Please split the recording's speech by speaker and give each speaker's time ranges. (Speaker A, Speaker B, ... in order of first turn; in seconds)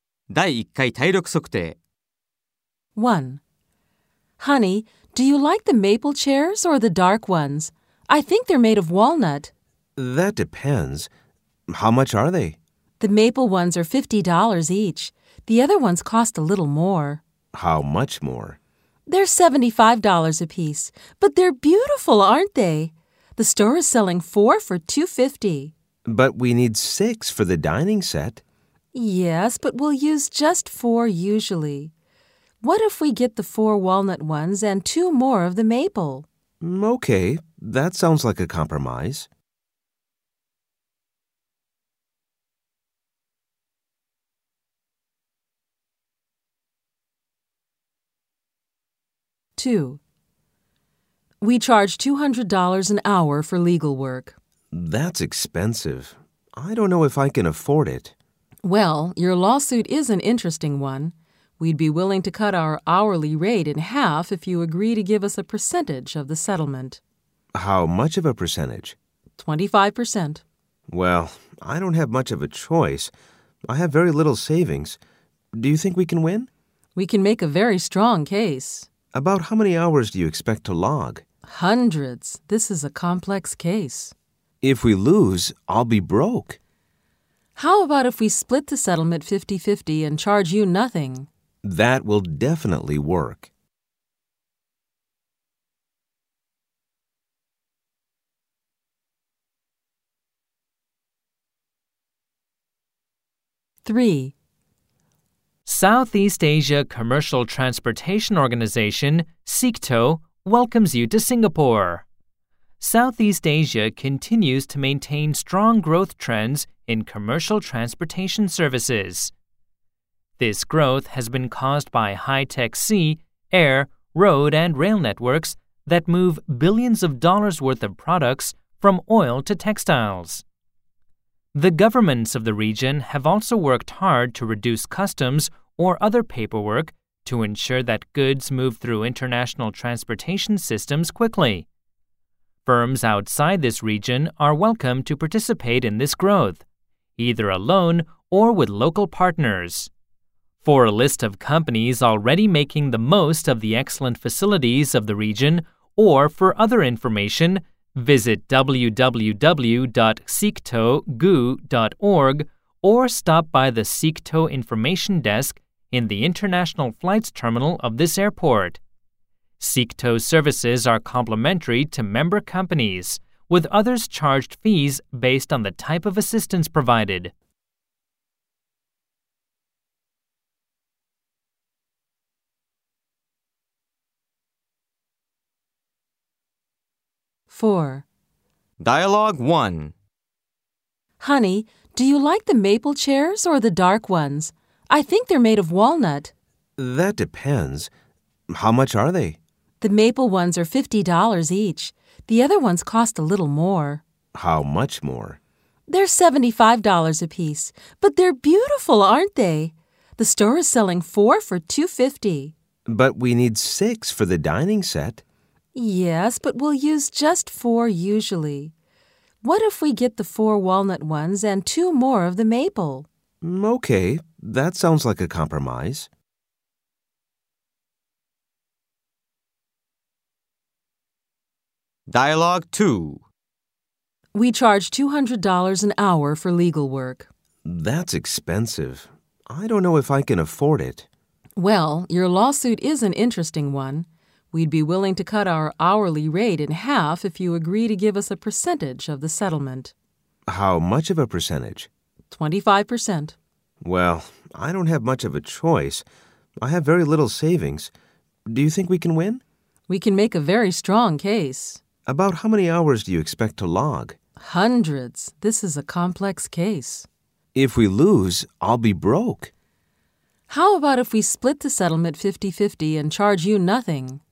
Speaker A: 0.3-1.8, 188.8-189.9, 232.1-233.2
Speaker B: 3.0-3.4, 4.4-9.5, 13.0-17.2, 19.1-25.7, 28.9-31.9, 32.6-36.3, 49.6-50.0, 51.4-54.4, 58.6-67.0, 69.4-70.4, 77.0-78.9, 81.5-84.1, 87.6-91.3, 103.8-104.3, 187.5-188.1, 191.2-196.3, 199.8-204.0, 205.9-212.5, 215.8-218.7, 219.4-223.1, 234.3-237.3, 241.6-249.9, 252.3-253.4, 259.9-261.8, 264.4-267.1, 270.5-274.2
Speaker C: 10.0-11.1, 11.7-12.6, 17.5-18.6, 26.1-28.4, 36.6-39.3, 54.7-58.1, 67.5-69.0, 70.9-73.1, 73.7-75.0, 75.5-76.5, 79.1-81.2, 84.6-86.6, 91.6-93.5, 196.8-197.9, 198.5-199.4, 204.3-205.4, 212.9-215.2, 223.4-226.1, 237.7-241.1, 250.5-251.9, 253.8-256.0, 256.6-257.9, 258.5-259.4, 262.1-264.2, 267.5-269.5
Speaker D: 105.7-112.0, 112.8-119.3, 120.4-130.4, 131.5-141.7, 142.7-146.6, 147.2-149.9, 150.6-168.8, 169.6-177.3